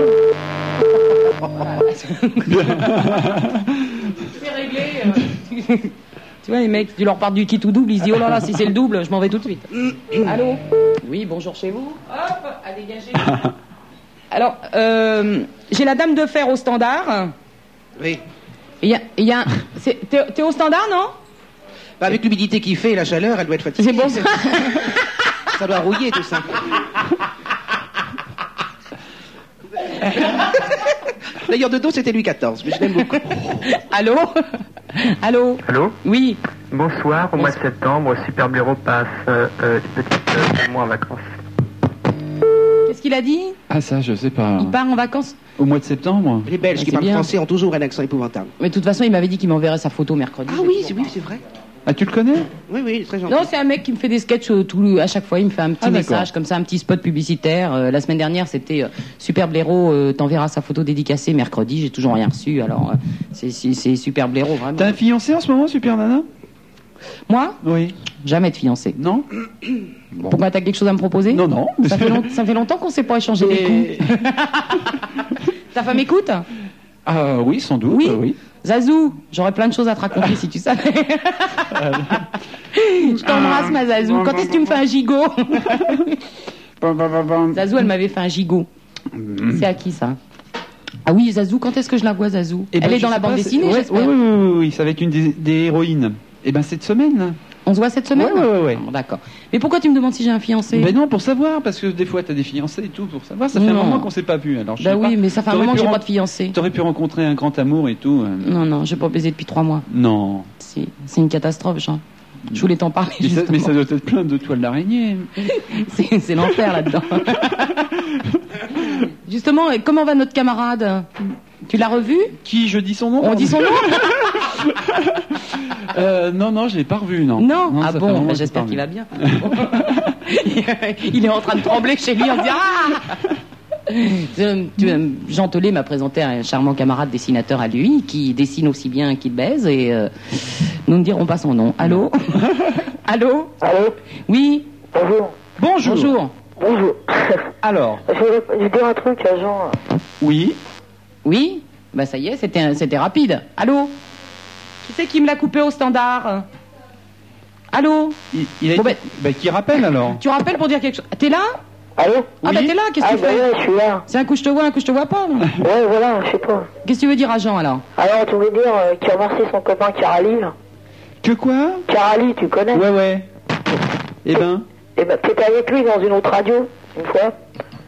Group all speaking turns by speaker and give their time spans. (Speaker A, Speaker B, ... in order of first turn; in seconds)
Speaker A: 1.6-3.0, 4.2-5.9, 6.4-9.7, 10.2-13.4, 14.3-17.3, 18.8-21.1, 23.8-25.0, 33.6-34.4, 35.0-36.4, 42.9-43.6, 44.6-45.4, 46.8-47.3, 48.6-51.1, 53.3-65.0, 67.3-67.6, 68.2-69.0, 70.2-75.0, 75.7-76.5, 77.9-81.8, 82.7-86.2, 87.5-88.7, 89.5-90.2, 91.1-94.1, 97.7-100.9, 103.5-104.1, 104.8-106.6, 108.4-109.9, 110.6-113.7, 115.5-117.8, 119.3-121.1, 121.7-122.4, 123.2-124.1, 127.4-133.2, 133.9-142.5, 143.1-143.6, 144.3-144.7, 145.6-146.3, 151.2-153.9, 154.8-156.5, 157.7-158.2, 160.1-161.6, 162.4-163.5, 164.1-165.5, 166.8-167.8
Speaker B: 2.5-4.0, 43.7-44.8, 45.6-46.5, 51.9-52.5, 55.8-56.3, 64.8-66.3, 67.6-68.0, 69.0-69.3, 71.3-72.3, 73.4-74.1, 77.1-78.4, 81.7-82.3, 83.0-84.8, 86.8-87.7, 89.1-89.7, 92.7-97.4, 98.1-98.8, 100.7-108.5, 109.9-110.5, 113.2-115.3, 122.4-128.8, 129.4-129.8, 145.6-146.1, 147.6-148.0, 150.2-150.6, 158.3-160.2, 162.4-162.8, 171.2-171.8, 172.7-173.3, 174.2-174.7
Speaker C: 9.8-10.2, 22.0-24.4, 25.6-26.6, 31.5-33.5, 46.5-48.5, 50.5-51.4, 52.7-53.5
Speaker D: 35.6-36.0, 36.7-41.3
Speaker E: 143.6-143.9, 144.9-145.3, 146.6-147.5, 148.1-149.8, 162.0-162.4, 163.0-164.1, 165.6-166.7, 168.0-170.5, 171.9-172.9, 175.0-177.3